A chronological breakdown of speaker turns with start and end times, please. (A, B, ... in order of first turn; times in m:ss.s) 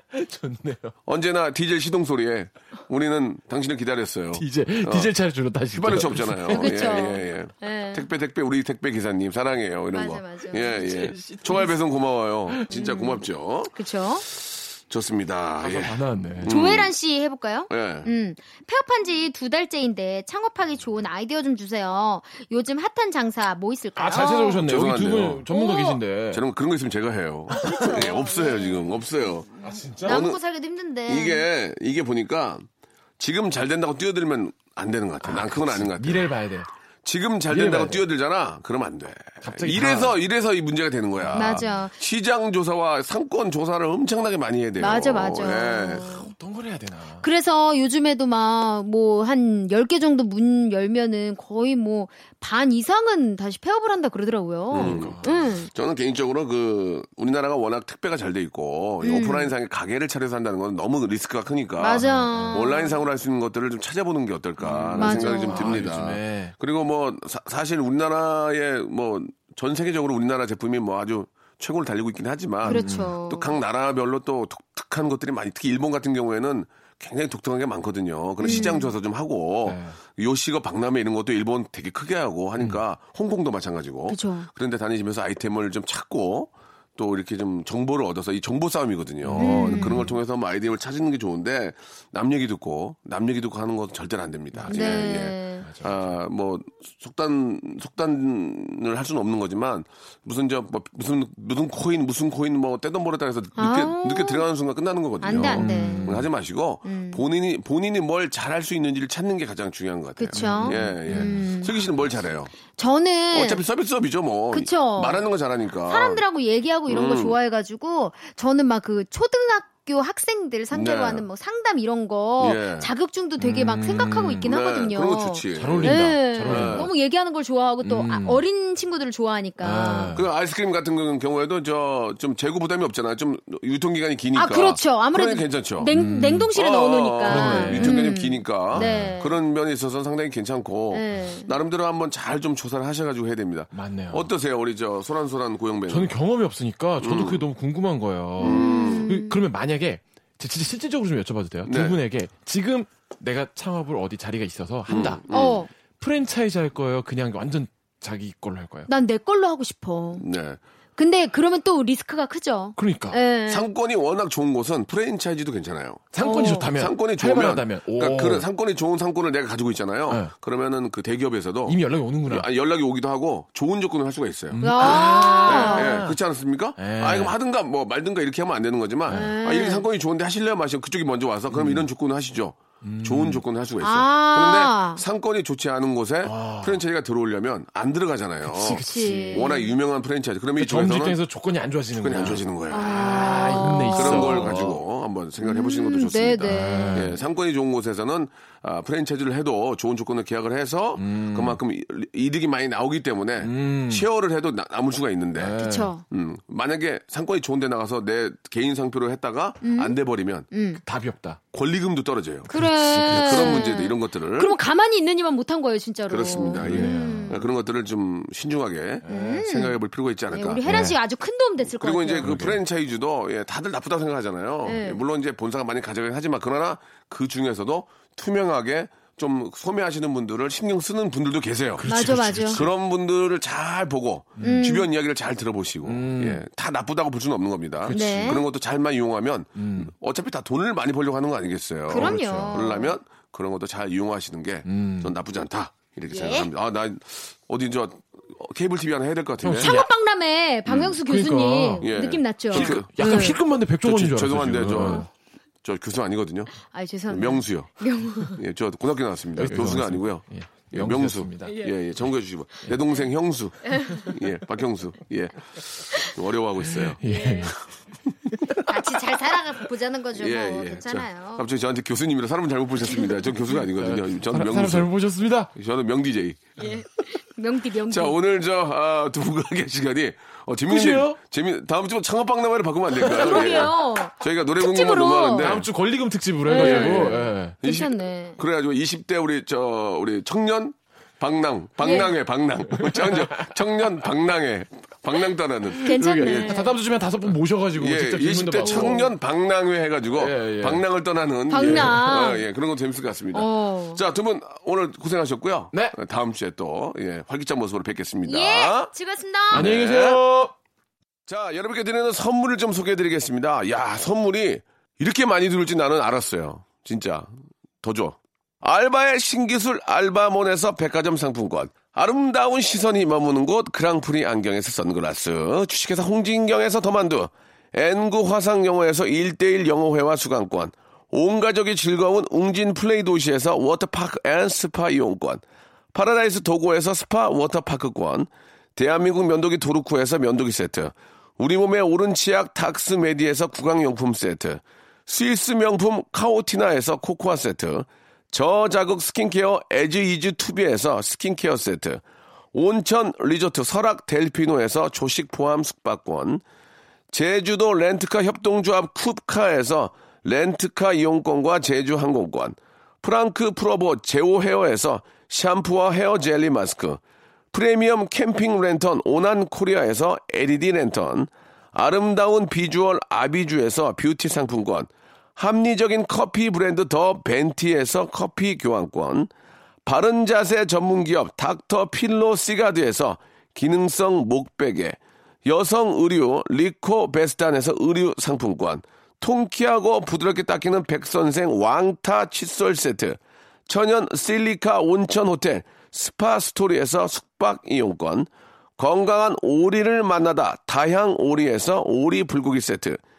0:00.1-0:01.0 A
0:01.1-0:05.1 B
0:04.3-0:07.1 A
0:05.7-0:13.7 B
0:06.5-0:08.1 C
0:09.9-0:10.8 C
0:10.7-0:11.8 A
0:12.7-0:14.3 C
0:14.3-0:16.9 B
0:15.6-0:16.6 A
0:16.4-0:24.6 C
0:17.7-0:18.1 B
0:24.0-0:26.4 A
0:24.1-0:25.5 B
0:25.5-0:26.0 C
0:26.3-0:30.4 B
0:27.5-0:28.0 A
0:27.6-0:29.0 C
0:29.6-0:31.5 C
0:29.6-0:30.3 A
0:31.1-0:32.6 B
0:33.2-0:36.3 B
0:35.2-0:36.7 A
0:37.0-0:46.2 B
0:37.5-0:38.0 A
0:39.4-0:40.2 A
0:41.2-0:41.7 A
0:41.3-0:42.0 C
0:44.8-0:46.3 C
0:46.2-0:47.2 A
0:47.2-0:55.7 C
0:54.7-0:55.5 A
0:54.7-1:52.5 B
0:59.0-0:59.5 C
1:01.8-1:03.0 C
1:02.0-1:02.6 A
1:04.6-1:06.6 A
1:05.0-1:05.8 C
1:12.6-1:13.2 A
1:12.6-1:13.5 C
1:18.4-1:18.9 C
1:18.4-1:18.8 A
1:19.6-1:20.0 A
1:24.1-1:24.5 C
1:29.2-1:30.2 A
1:29.4-1:30.0 C
1:34.5-1:35.1 A
1:34.7-1:35.6 C
1:35.6-1:36.0 A
1:43.6-1:44.5 C
1:45.2-1:46.2 C
1:45.3-1:46.3 A
1:46.8-1:47.2 C
1:50.2-1:51.8 C
1:50.3-1:51.4 A
1:52.8-1:53.6 C
1:53.3-1:56.2 B
1:54.5-1:55.3 C
1:55.9-2:10.2 C
1:56.9-1:57.4 B
2:00.7-2:01.2 B
2:02.4-2:02.9 B
2:03.4-2:04.5 A
2:04.4-2:06.9 B
2:05.6-2:06.9 A
2:07.8-2:08.4 A
2:09.6-2:10.3 A
2:10.2-2:15.9 B
2:14.3-2:19.4 C
2:15.9-2:16.5 A
2:16.5-2:26.1 B
2:17.3-2:18.0 A
2:18.7-2:19.2 A
2:20.9-2:21.5 C
2:23.7-2:24.3 A
2:25.9-2:35.2 A
2:27.0-2:27.4 B
2:28.4-2:29.1 B
2:28.4-2:29.4 C
2:31.6-2:32.0 B
2:34.9-2:35.7 B
2:35.3-2:35.7 C
2:36.0-2:38.9 A
2:38.9-2:40.2 C
2:40.2-2:40.6 B
2:41.0-2:43.7 C
2:42.8-2:43.2 A
2:43.5-2:46.1 B
2:46.1-2:48.5 A
2:46.2-2:46.7 C
2:46.7-3:11.2 B
2:51.7-2:52.5 A
2:54.5-2:56.2 A
2:54.6-2:56.0 C
2:56.8-2:57.4 A
2:59.1-2:59.8 C
3:01.5-3:01.9 A
3:02.8-3:03.4 A
3:03.8-3:05.0 C
3:06.2-3:06.8 A
3:08.4-3:09.5 A
3:08.8-3:09.7 C
3:10.6-3:14.8 A
3:12.0-3:13.2 B
3:12.7-3:14.6 C
3:14.0-3:30.5 B
3:15.4-3:17.2 C
3:16.4-3:17.1 A
3:21.0-3:21.6 A
3:23.4-3:24.1 A
3:25.4-3:25.9 A
3:25.6-3:26.0 C
3:29.6-3:30.0 C
3:30.5-3:30.8 C
3:30.8-3:31.4 A
3:31.5-3:32.5 B
3:32.5-3:37.5 C
3:32.5-3:33.7 A
3:33.1-3:34.6 B
3:36.1-3:40.6 B
3:36.6-3:37.4 A
3:39.0-3:39.4 A
3:39.1-3:39.8 C
3:40.3-3:42.4 C
3:40.6-3:41.0 A
3:41.8-4:09.8 B
3:42.2-3:42.6 A
3:44.6-3:45.0 C
3:51.8-3:52.7 A
3:51.8-3:52.6 C
3:54.4-3:54.9 C
3:55.8-3:56.4 A
3:57.8-3:58.3 A
3:57.9-3:58.4 C
3:59.6-3:59.9 A
4:01.9-4:02.6 A
4:01.9-4:03.0 C
4:04.6-4:05.1 A
4:06.1-4:06.5 C
4:09.4-4:09.8 A
4:09.6-4:13.4 C
4:10.7-4:11.0 B
4:11.0-4:11.9 A
4:11.8-4:15.1 B
4:12.5-4:15.1 A
4:15.6-4:16.5 B
4:16.6-4:18.4 C
4:17.1-4:27.0 B
4:19.4-4:21.6 A
4:21.4-4:21.7 C
4:23.6-4:24.2 C
4:26.7-4:27.7 A
4:27.0-4:27.6 C
4:28.3-4:28.7 A
4:28.6-4:31.5 C
4:30.2-4:34.9 B
4:33.7-4:35.5 A
4:35.5-4:36.4 B
4:36.6-4:38.2 C
4:37.9-4:45.7 B
4:40.7-4:41.2 A
4:43.0-4:45.6 C
4:43.1-4:43.6 A
4:45.4-4:47.6 A
4:46.5-4:48.4 C
4:46.5-4:56.5 B
4:51.8-4:52.1 C
4:52.7-4:53.6 A
4:55.7-4:59.1 A
4:55.8-4:56.8 C
4:57.8-5:08.9 B
4:58.6-4:59.1 C
5:00.2-5:00.8 A
5:01.5-5:02.4 C
5:01.6-5:02.0 A
5:03.3-5:04.0 C
5:08.3-5:09.7 C
5:09.5-5:10.2 B
5:09.5-5:10.5 A
5:11.3-5:17.3 B
5:17.8-5:52.0 B
5:52.5-5:56.4 B
5:57.1-6:07.0 B
6:07.5-6:19.3 B
6:19.8-6:43.0 B